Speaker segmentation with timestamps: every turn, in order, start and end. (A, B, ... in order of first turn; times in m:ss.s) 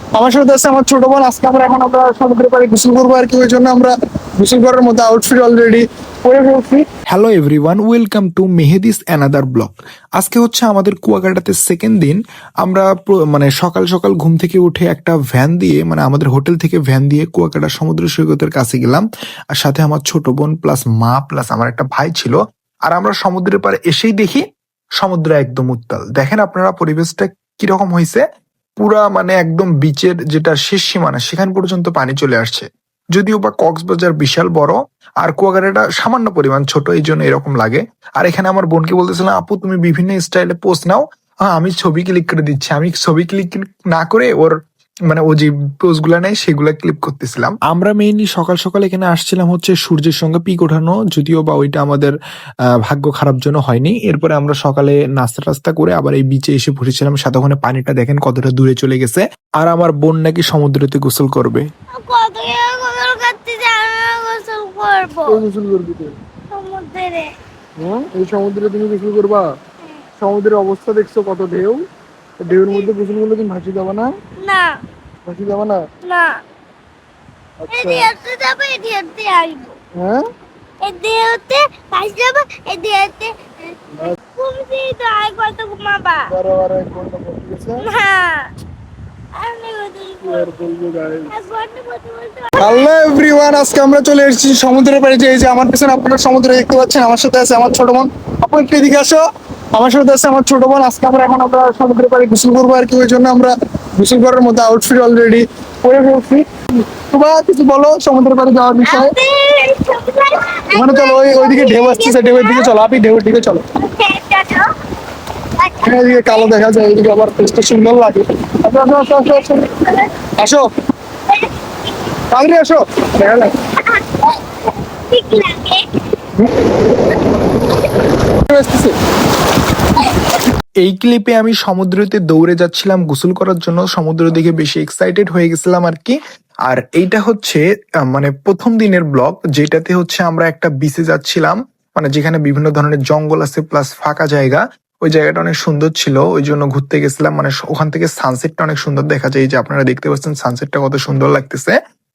0:00.1-0:06.8 A
0:07.1-0:24.4 B
0:25.0-0:28.2 B
0:28.8-0:44.5 B
0:45.1-0:52.1 B
0:52.8-1:01.7 B
1:01.9-1:05.4 C
1:05.3-1:06.1 A
1:06.5-1:07.3 C
1:07.8-1:09.4 A
1:10.2-1:11.8 A
1:12.4-1:14.1 A
1:14.4-1:14.7 C
1:15.2-1:15.8 A
1:16.0-1:16.4 C
1:17.6-1:18.1 A
1:17.7-1:19.8 C
1:20.0-1:20.2 A
1:20.8-1:23.3 C
1:24.0-1:26.2 C
1:26.3-1:27.8 A
1:27.8-1:28.5 C
1:29.4-1:30.5 C
1:30.2-1:31.3 A
1:31.3-1:32.9 C
1:32.6-1:39.2 A
1:39.7-1:46.4 A
1:47.0-1:49.1 A
1:48.9-1:52.7 C
1:50.7-1:53.6 A
1:53.8-1:54.7 C
1:55.6-1:56.5 C
1:55.8-2:00.6 A
2:02.3-2:03.5 A
2:03.9-2:04.3 C
2:05.1-2:05.8 C
2:08.5-2:08.9 A
2:10.8-2:31.7 B